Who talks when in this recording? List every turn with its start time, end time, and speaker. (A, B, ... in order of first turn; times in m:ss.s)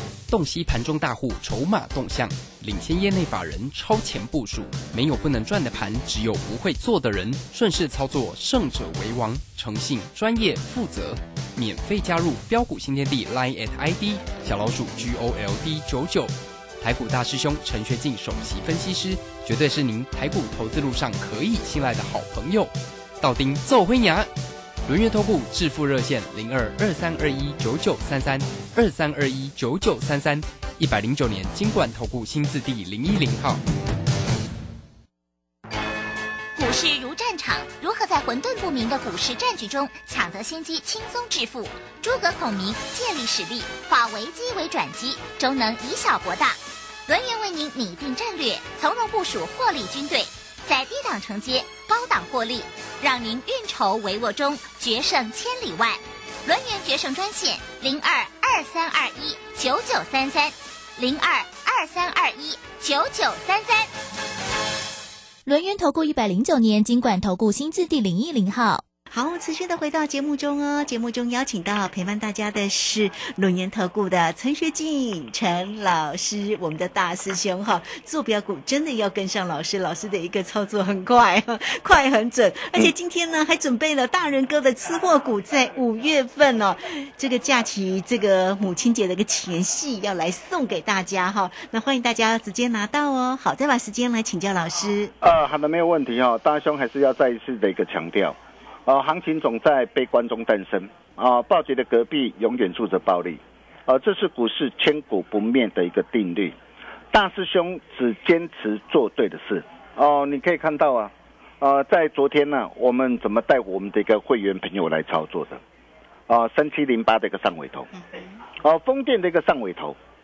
0:00.3-0:24.3 A
0:24.9-0:33.6 A
0:36.6-1:03.9 B
1:05.5-1:08.8 C
1:09.1-1:35.1 D
1:35.2-1:46.6 E
1:47.1-1:55.6 E
1:56.3-1:57.9 E
1:57.9-1:58.4 D
1:58.6-2:00.0 E